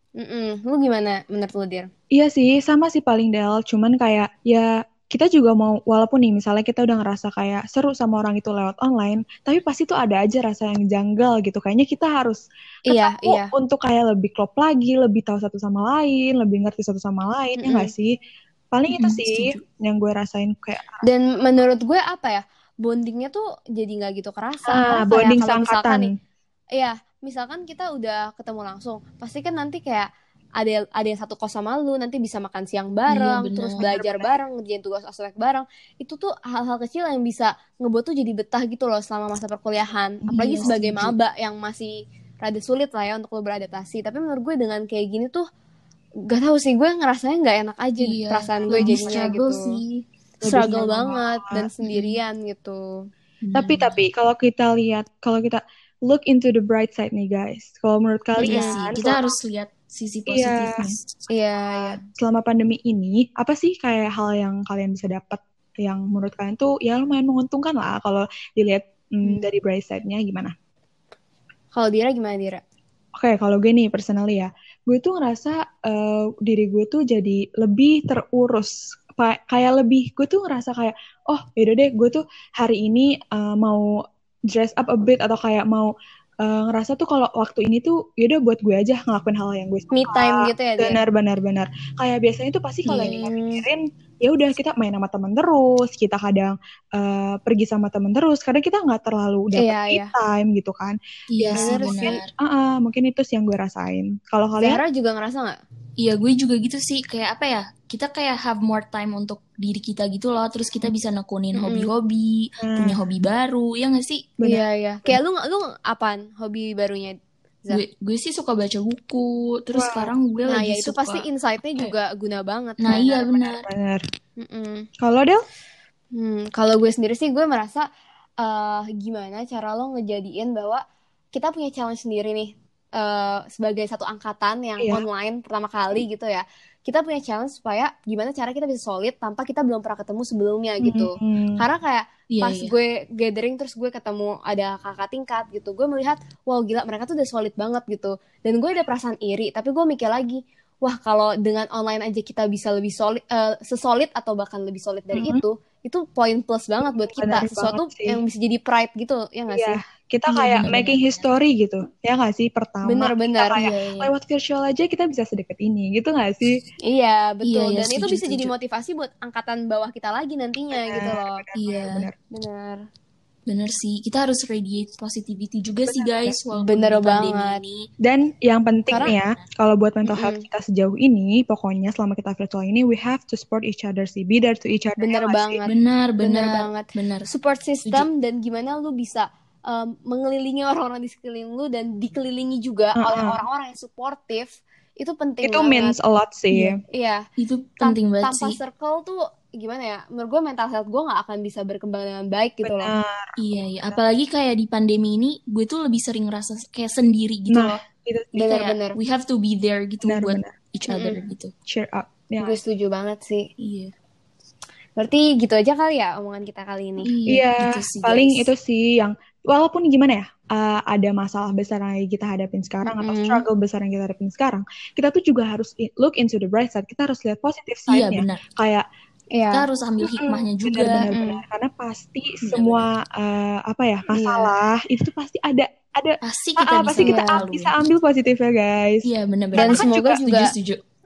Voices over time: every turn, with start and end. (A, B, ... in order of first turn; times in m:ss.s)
0:00.2-0:01.9 A
0:02.1-0:18.1 B
0:12.9-0:13.5 A
0:17.6-0:17.9 A
0:18.7-0:21.1 B
0:18.9-0:19.6 C
0:21.0-0:26.1 A
0:24.7-0:26.1 B
0:26.7-0:45.4 A
0:33.1-0:33.9 C
0:33.9-0:34.4 B
0:40.3-0:41.1 C
0:46.3-0:49.8 A
0:48.0-0:51.2 C
0:48.6-0:49.3 B
0:50.4-0:52.9 A
0:51.1-0:51.7 B
0:51.8-0:52.2 C
0:53.4-0:54.0 C
0:53.6-0:59.3 B
0:58.4-1:01.1 C
0:58.4-0:58.8 A
1:00.3-1:01.0 B
1:01.3-1:02.0 A
1:01.7-1:10.5 B
1:11.7-1:12.6 A
1:13.2-1:23.9 B
1:24.5-1:41.0 B
1:29.9-1:31.0 A
1:32.8-1:33.3 C
1:33.3-1:33.6 A
1:39.6-1:40.1 A
1:41.3-1:42.3 C
1:41.5-1:44.8 B
1:41.5-1:42.2 A
1:44.6-1:45.6 A
1:46.0-1:54.3 C
1:51.6-1:51.9 A
1:52.6-1:53.0 B
1:54.4-1:55.2 B
1:54.4-1:57.8 A
1:57.7-2:01.9 C
1:59.7-2:00.1 B
2:00.4-2:03.3 A
2:02.8-2:03.6 C
2:02.9-2:04.0 B
2:04.4-2:04.9 A
2:05.0-2:05.4 B
2:06.1-2:07.9 A
2:08.4-2:39.8 A
2:14.8-2:15.0 B
2:20.8-2:21.6 B
2:22.3-2:22.7 C
2:35.1-2:35.4 B
2:37.1-2:38.2 B
2:39.5-2:46.6 B
2:40.3-2:41.3 C
2:42.9-2:43.6 A
2:43.5-2:44.1 C
2:46.8-2:51.4 A
2:47.4-2:48.5 C
2:50.7-2:52.2 B
2:51.5-2:52.1 C
2:52.3-2:52.8 A
2:53.5-2:57.9 C
2:55.9-2:56.4 B
2:56.5-2:57.6 A
2:58.0-3:05.6 B
2:58.9-2:59.5 C
3:00.1-3:00.4 A
3:05.0-3:16.0 A
3:05.6-3:07.3 C
3:13.0-3:13.4 B
3:15.4-3:16.8 B
3:16.9-3:17.2 A
3:17.4-3:18.6 C
3:17.8-3:22.9 A
3:22.6-3:23.4 B
3:23.4-3:27.8 C
3:27.5-3:28.4 B
3:28.4-3:29.0 A
3:28.5-3:31.5 C
3:30.0-3:30.5 B
3:30.9-3:31.2 A
3:31.7-3:32.6 B
3:32.4-3:33.5 A
3:33.6-3:33.9 C
3:35.0-3:37.1 A
3:37.0-3:38.5 C
3:37.3-3:48.8 B
3:42.8-3:43.4 A
3:47.9-3:48.4 C
3:49.3-3:49.7 A
3:49.5-3:51.1 C
3:50.0-4:00.2 B
3:51.0-3:51.4 A
3:52.4-3:52.9 C
3:54.1-3:54.5 A
3:56.2-3:57.8 C
3:57.0-3:57.4 A
3:59.0-4:00.8 C
3:59.6-4:00.5 A